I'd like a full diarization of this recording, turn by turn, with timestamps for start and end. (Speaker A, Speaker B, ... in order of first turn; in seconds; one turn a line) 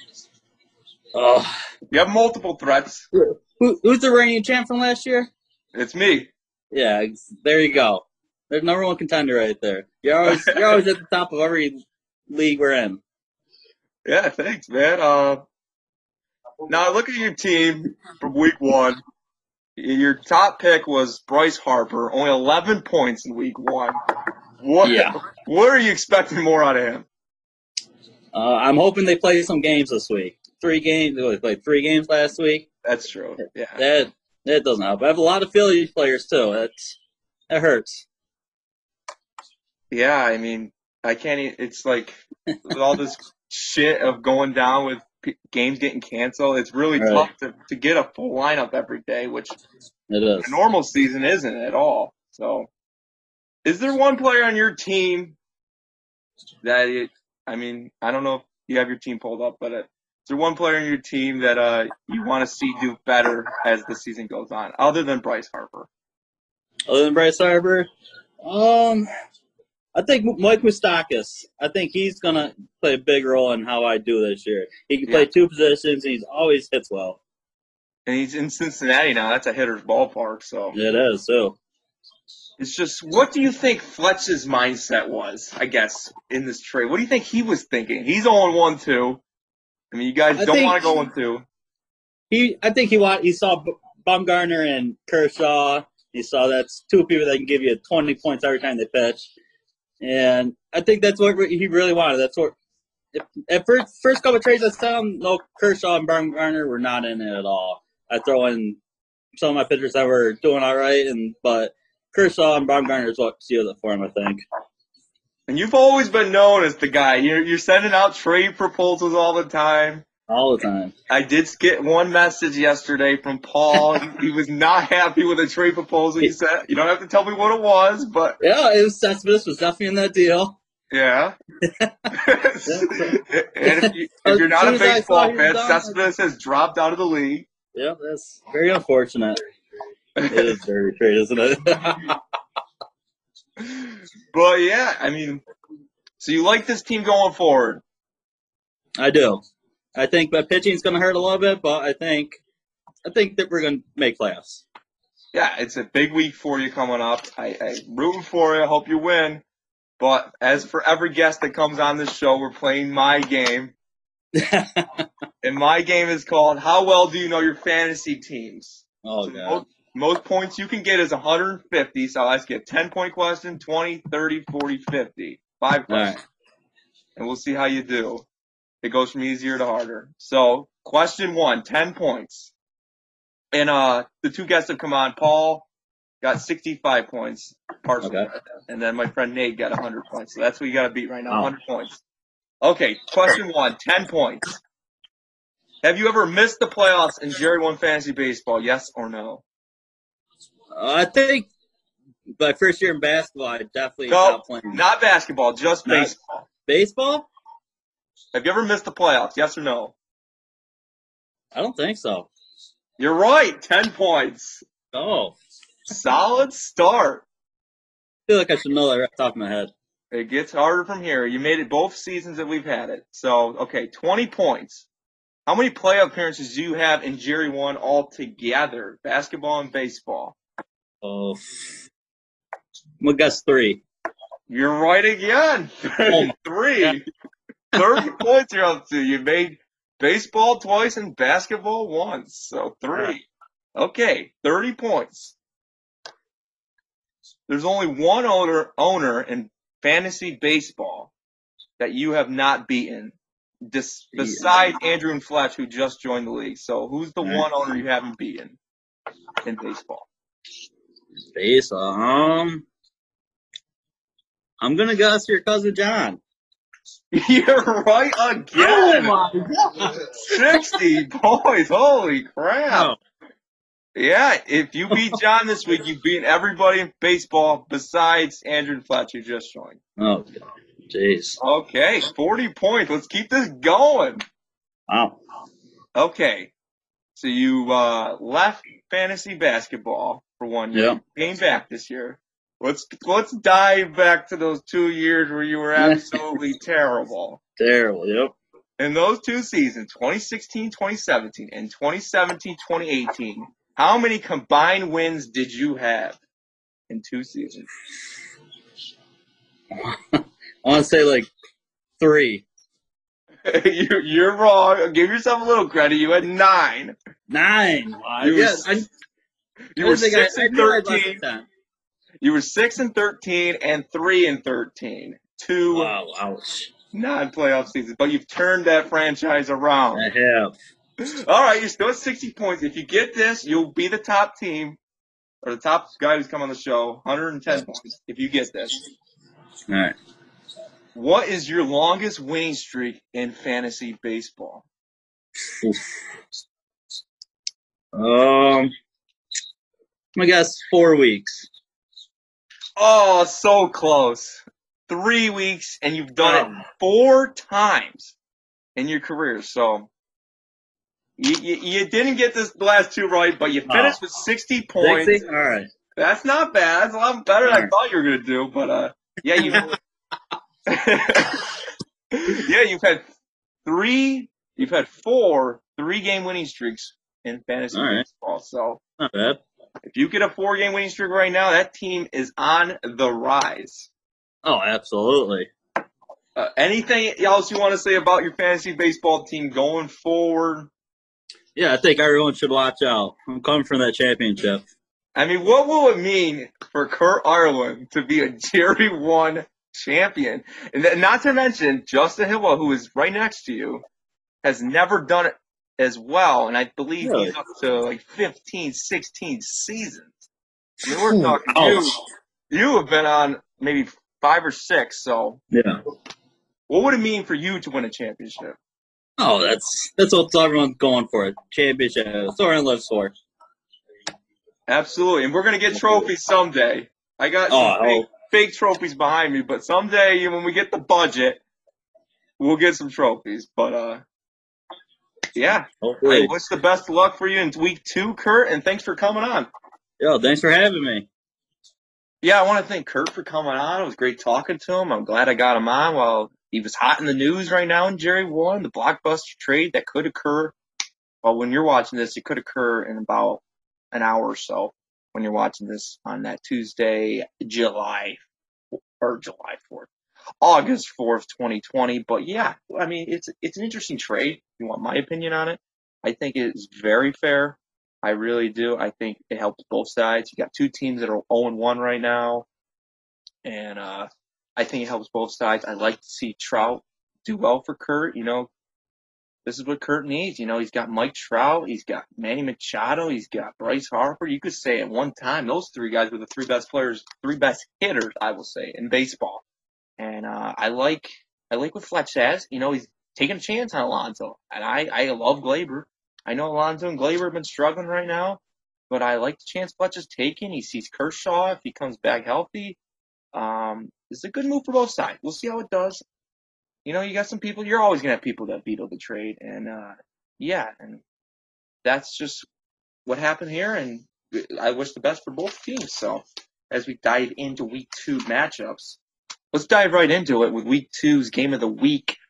Speaker A: 1.1-1.5
Speaker B: 1.9-3.0
Speaker A: 3.1-5.3
Speaker B: 5.7-6.3
Speaker A: 6.7-11.8
Speaker A: 12.3-13.0
Speaker B: 14.0-15.4
Speaker B: 16.7-19.0
Speaker B: 19.8-24.0
Speaker B: 24.6-27.1
Speaker A: 24.8-25.2
Speaker A: 28.3-32.7
Speaker B: 32.8-33.8
Speaker A: 33.8-37.0
Speaker A: 37.5-38.0
Speaker B: 39.9-49.6
Speaker A: 47.0-47.3
Speaker A: 50.1-50.5
Speaker B: 50.4-52.7
Speaker B: 53.6-55.4
Speaker B: 56.6-65.9
Speaker A: 66.9-67.9
Speaker A: 68.4-69.0
Speaker A: 69.9-77.2
Speaker B: 78.0-80.8
Speaker A: 80.7-81.6
Speaker B: 82.6-89.2
Speaker B: 89.9-91.4
Speaker A: 90.3-90.8
Speaker A: 92.3-99.3
Speaker A: 100.0-102.5
Speaker A: 103.1-108.8
Speaker A: 109.4-114.4
Speaker B: 115.5-120.0
Speaker A: 120.3-120.9
Speaker B: 121.1-128.4
Speaker A: 128.4-130.6
Speaker B: 130.9-131.3
Speaker A: 131.8-132.1
Speaker B: 132.1-137.5
Speaker A: 132.6-136.0
Speaker A: 137.7-139.4
Speaker B: 140.2-140.5
Speaker A: 140.3-142.2
Speaker B: 143.6-145.4
Speaker B: 146.2-147.8
Speaker A: 149.0-149.4
Speaker A: 149.9-152.4
Speaker A: 153.1-154.6
Speaker B: 155.3-159.4
Speaker B: 160.0-163.7
Speaker A: 164.4-165.0
Speaker B: 165.4-176.1
Speaker A: 169.0-169.6
Speaker A: 175.9-176.2
Speaker B: 177.2-178.2
Speaker B: 178.8-182.5
Speaker B: 183.5-185.7
Speaker B: 186.2-192.0
Speaker A: 188.0-188.3
Speaker B: 192.6-194.6
Speaker B: 195.8-199.4
Speaker A: 200.7-201.5
Speaker A: 202.4-204.8
Speaker B: 204.1-206.4
Speaker A: 205.8-206.1
Speaker A: 206.7-207.3
Speaker B: 208.3-209.9
Speaker A: 211.5-212.3
Speaker B: 213.0-214.6
Speaker A: 214.9-215.3
Speaker B: 215.9-217.2
Speaker A: 218.3-219.7
Speaker B: 220.1-224.9
Speaker B: 225.5-230.4
Speaker A: 231.0-231.4
Speaker A: 233.0-233.8
Speaker B: 234.5-237.0
Speaker A: 236.1-237.0
Speaker B: 237.7-243.2
Speaker A: 242.9-243.2
Speaker B: 243.8-245.3
Speaker B: 247.5-251.1
Speaker B: 251.8-253.2
Speaker B: 253.7-258.6
Speaker A: 254.1-254.7
Speaker A: 257.2-257.5
Speaker B: 259.4-260.1
Speaker A: 261.3-262.6
Speaker A: 264.6-266.2
Speaker B: 267.1-269.1
Speaker A: 268.5-270.6
Speaker B: 270.2-272.9
Speaker A: 272.7-273.0
Speaker B: 273.9-279.8
Speaker A: 280.0-281.4
Speaker B: 281.4-284.2
Speaker A: 284.9-285.2
Speaker B: 285.9-286.5
Speaker B: 287.1-297.4
Speaker A: 290.7-291.0
Speaker A: 295.8-296.2
Speaker A: 297.6-298.3
Speaker B: 298.8-306.2
Speaker B: 306.9-307.7
Speaker A: 309.7-311.3
Speaker A: 312.0-312.4
Speaker B: 313.4-316.9
Speaker A: 317.3-318.9
Speaker B: 318.2-318.7
Speaker B: 319.8-321.2
Speaker A: 319.8-321.5
Speaker B: 322.2-325.9
Speaker A: 325.7-326.7
Speaker B: 326.9-330.1
Speaker A: 329.9-330.5
Speaker B: 331.0-334.8
Speaker B: 335.4-338.8
Speaker A: 339.7-339.9
Speaker B: 340.9-344.6
Speaker A: 345.5-345.8
Speaker A: 347.9-348.7
Speaker A: 350.1-351.5
Speaker B: 352.8-358.1
Speaker A: 356.2-356.6
Speaker B: 358.8-359.9
Speaker B: 361.2-365.2
Speaker A: 363.7-364.0
Speaker A: 364.8-365.7
Speaker B: 366.0-369.7
Speaker A: 367.4-367.7
Speaker A: 369.4-369.7
Speaker B: 370.7-371.4
Speaker B: 372.1-373.1
Speaker B: 373.6-378.8
Speaker A: 377.7-378.0
Speaker A: 379.0-379.4
Speaker B: 379.9-383.9
Speaker A: 384.4-385.5
Speaker B: 386.4-390.7
Speaker A: 391.5-394.6
Speaker B: 395.1-403.8
Speaker B: 404.4-410.3
Speaker A: 407.0-407.4
Speaker B: 410.8-412.0
Speaker A: 410.9-412.0
Speaker B: 412.5-415.4
Speaker A: 415.5-415.8
Speaker B: 416.7-418.6
Speaker A: 419.2-423.1
Speaker B: 424.7-431.4
Speaker A: 425.7-426.1
Speaker A: 427.5-428.1
Speaker B: 432.4-434.0
Speaker B: 435.3-439.5
Speaker A: 435.8-436.3
Speaker A: 440.0-441.1
Speaker B: 442.2-450.6
Speaker B: 451.2-458.2
Speaker B: 459.0-459.9
Speaker B: 460.4-472.4
Speaker B: 473.4-478.5
Speaker B: 479.4-489.4
Speaker B: 490.0-502.8
Speaker B: 503.3-506.0
Speaker B: 506.8-511.0
Speaker B: 511.8-512.5
Speaker B: 513.0-519.0
Speaker B: 519.5-522.1